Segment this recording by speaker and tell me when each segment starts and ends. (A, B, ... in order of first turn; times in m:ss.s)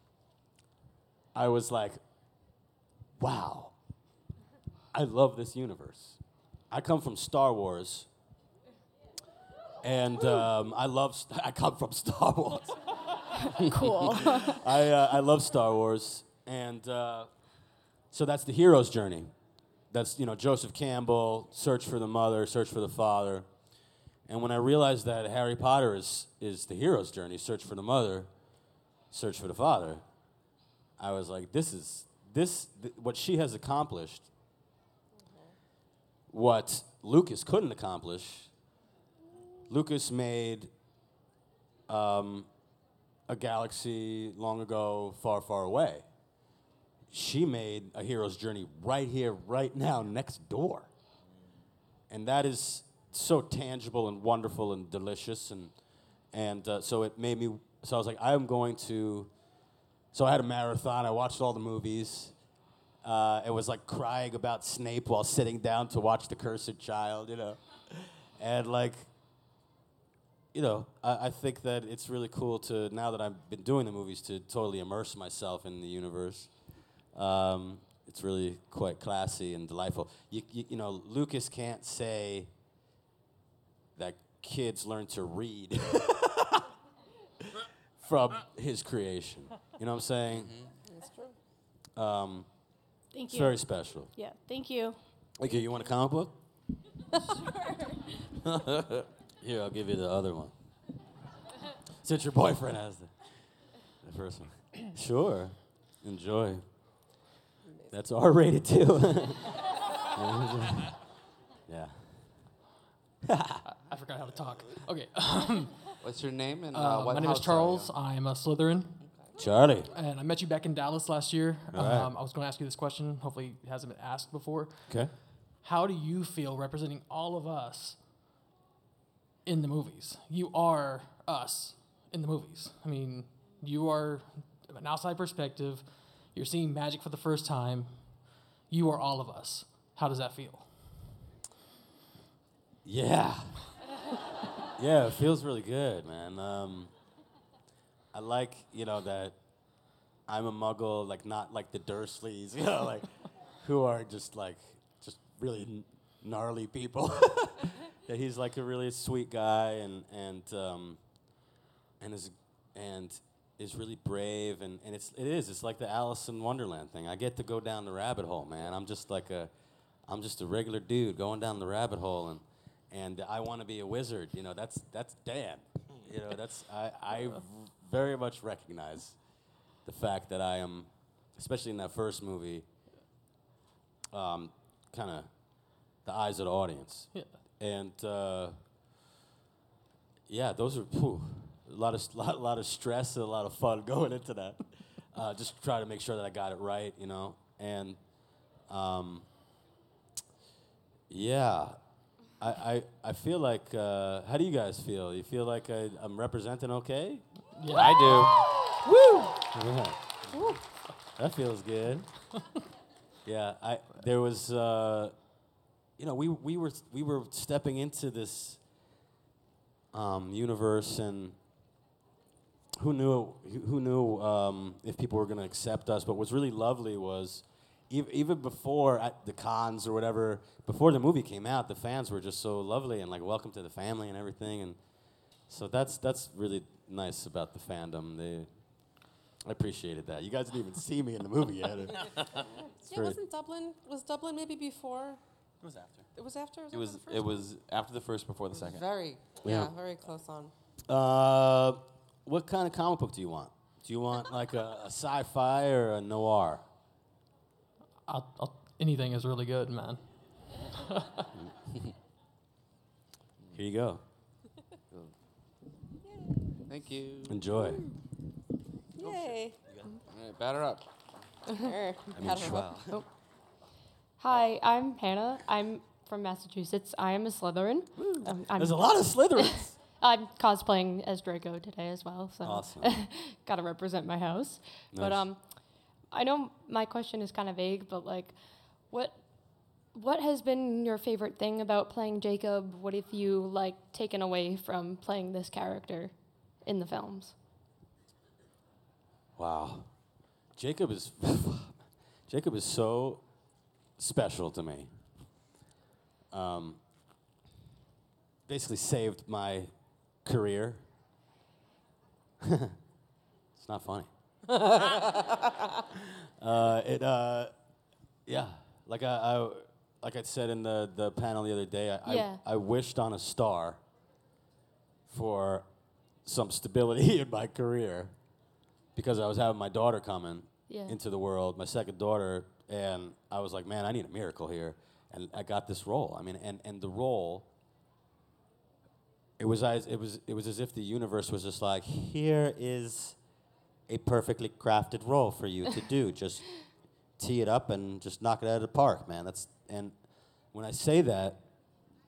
0:01.3-0:02.0 A
0:03.2-0:03.8 A
0:04.9-0:08.1 A
0:09.8-0:12.8 A
0:13.6-0:14.6 B
0:13.7-0:17.3 A
0:18.1-0:19.3 A
0:19.9-0:23.5 A
0:24.3-0:28.3 A
0:29.1-0:30.0 A
0:31.0-0:34.3 A
0:35.3-0:35.5 C
0:36.3-0:38.5 A
0:39.7-0:40.7 A
0:41.9-0:42.5 A
0:43.3-0:46.1 A
0:47.1-0:50.9 A
0:52.1-0:55.8 A
0:56.3-0:59.3 A
1:00.1-1:02.4 A
1:03.0-1:09.1 A
1:10.5-1:16.5 A
1:17.1-1:22.5 A
1:24.0-1:26.7 A
1:28.0-1:30.6 A
1:30.9-1:31.4 C
1:32.0-1:32.5 A
1:33.1-1:35.0 B
1:33.3-1:34.1 A
1:35.4-1:36.4 A
1:38.6-1:40.5 A
1:42.0-1:43.1 A
1:44.0-1:46.6 A
1:47.9-1:49.6 A
1:50.1-1:51.0 A
1:51.7-1:52.4 A
1:53.2-1:53.6 A
1:53.7-1:56.0 D
1:56.0-1:57.9 E
1:56.7-1:59.0 D
1:59.4-1:59.9 A
1:59.9-2:08.0 D
2:01.7-2:02.1 A
2:04.9-2:05.1 A
2:09.4-2:21.0 D
2:22.8-2:23.7 A
2:24.8-2:26.9 A
2:28.1-2:29.4 A
2:30.3-2:41.0 A
2:42.0-2:49.5 A
2:50.1-2:59.2 A
2:59.8-3:02.7 A
3:04.1-3:05.3 A
3:06.0-3:08.6 A
3:10.3-3:18.0 A
3:18.7-3:19.3 A
3:21.1-3:21.8 A
3:22.4-3:28.7 A
3:27.6-3:28.6 D
3:29.4-3:30.5 A
3:31.2-3:32.1 A
3:33.2-3:35.2 A
3:36.0-3:38.6 A
3:39.9-3:41.4 A
3:42.8-3:54.8 A
3:55.5-3:58.5 A
3:59.4-4:02.2 A
4:02.5-4:05.2 C
4:02.9-4:03.2 A
4:05.6-4:06.1 F
4:06.2-4:07.4 C
4:06.7-4:08.9 F
4:08.5-4:10.5 C
4:09.4-4:09.7 A
4:10.9-4:16.6 A
4:18.1-4:20.0 D
4:21.0-4:21.3 D
4:23.5-4:24.0 A
4:26.7-4:27.4 E
4:27.2-4:27.9 A
4:27.6-4:27.9 C
4:29.0-4:29.6 C
4:30.1-4:30.8 E
4:31.6-4:32.9 C
4:32.2-4:33.0 A
4:34.2-4:45.4 G
4:38.0-4:39.8 A
4:42.4-4:43.1 A
4:44.9-4:45.3 A
4:46.1-4:48.4 G
4:48.9-4:49.2 G
4:49.9-4:57.4 G
4:59.4-4:59.9 A
5:00.6-5:03.2 A
5:04.0-5:04.9 A
5:06.3-5:06.8 A
5:08.5-5:09.7 A
5:10.2-5:10.8 A
5:12.4-5:12.8 A
5:13.6-5:14.1 A
5:14.6-5:15.2 C
5:16.4-5:17.5 A
5:18.3-5:23.8 A
5:22.0-5:22.4 G
5:25.1-5:25.7 A
5:26.2-5:28.1 A
5:29.0-5:37.5 A
5:30.7-5:31.0 G
5:39.4-5:43.2 A
5:43.9-5:46.6 A
5:47.2-5:50.0 A
5:50.5-5:51.4 A